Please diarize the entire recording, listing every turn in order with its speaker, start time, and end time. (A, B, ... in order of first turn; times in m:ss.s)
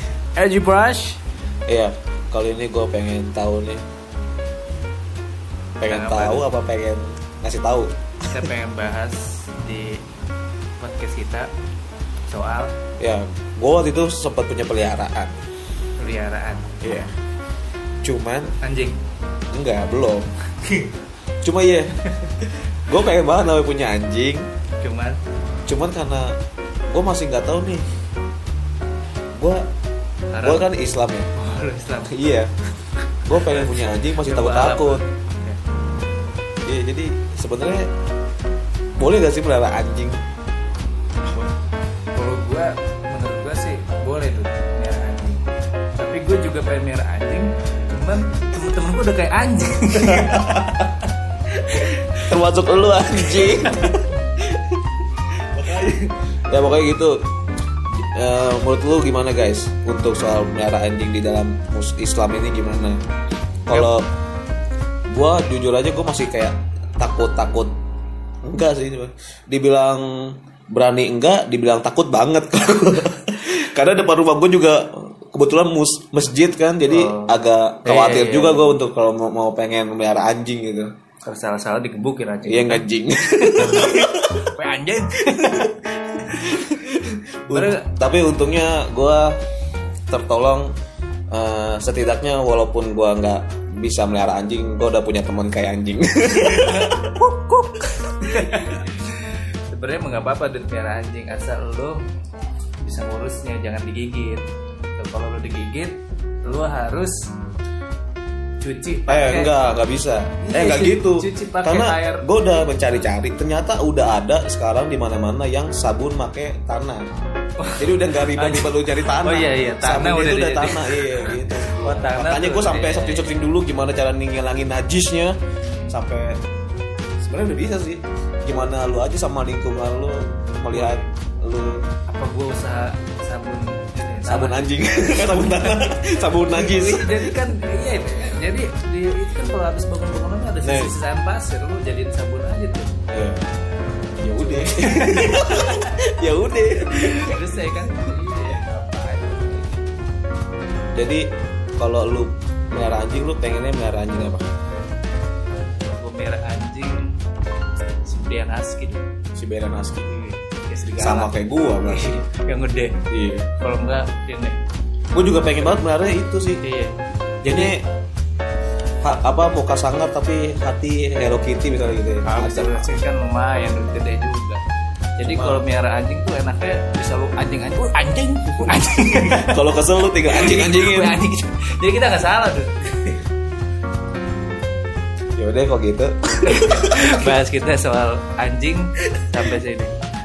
0:00.4-0:01.2 A
0:01.7-0:03.8 B
0:05.8-0:07.9 B
0:05.9-0:06.5 A
0:08.2-0:10.0 A
0:10.8-0:11.5 A
0:12.3-0:12.7 A
0:13.0-0:15.3 B
0:16.0-0:16.7 A
0:16.8-0:17.1 B
0:18.0-0:18.5 B
0:18.6-0:19.0 A
0:19.5-0:20.3 B
0:20.6-0:20.9 A
0:21.4-0:21.9 B
0:22.8-0:24.5 B
0:24.8-0:25.2 A
0:25.7-0:26.4 B
0:26.9-0:27.8 B
0:29.4-0:29.6 B
0:30.3-0:30.7 A
0:30.4-0:31.3 B
0:31.4-0:32.2 A
0:32.1-0:32.5 B
0:33.3-0:35.0 B
0:33.3-0:35.6 A
0:36.6-0:37.9 B
0:39.0-0:40.2 B
0:42.1-0:45.4 A
0:46.0-0:50.8 A
0:50.0-0:50.8 B
0:51.6-0:52.0 A
0:52.2-0:54.8 B
0:53.2-0:53.9 A
0:55.5-0:57.2 B
0:58.0-1:03.0 B
1:03.7-1:04.0 B
1:05.1-1:07.7 B
1:08.4-1:20.9 B
1:16.9-1:18.8 A
1:21.2-1:22.8 A
1:22.4-1:24.4 B
1:23.4-1:27.9 A
1:26.6-1:26.9 B
1:27.4-1:29.4 B
1:30.1-1:30.7 B
1:31.3-1:37.1 B
1:36.4-1:42.0 A
1:42.8-1:44.4 A
1:45.0-1:47.2 A
1:48.6-1:49.5 A
1:49.1-1:57.0 B
1:50.4-1:52.2 A
1:57.6-2:03.3 A
1:57.8-2:05.4 B
2:05.9-2:06.4 B
2:07.2-2:11.8 B
2:10.7-2:11.0 A
2:12.1-2:22.9 A
2:14.2-2:17.4 B
2:20.6-2:20.9 B
2:23.1-2:23.4 B
2:24.2-2:27.5 B
2:24.4-2:25.9 A
2:26.9-2:29.9 A
2:30.9-2:31.2 B
2:31.8-2:34.4 B
2:35.8-2:37.2 A
2:38.0-2:39.0 A
2:39.3-2:40.1 B
2:40.0-2:43.0 A
2:41.0-2:42.1 B
2:43.1-2:43.5 B
2:43.6-2:44.6 A
2:45.1-2:46.6 B
2:46.6-2:47.7 A
2:47.4-2:47.8 B
2:49.0-2:53.0 B
2:52.2-2:54.6 A
2:55.2-2:59.6 A
2:55.2-2:55.6 B
2:59.4-3:01.2 B
3:00.3-3:03.2 A
3:05.4-3:07.4 B
3:06.4-3:09.9 A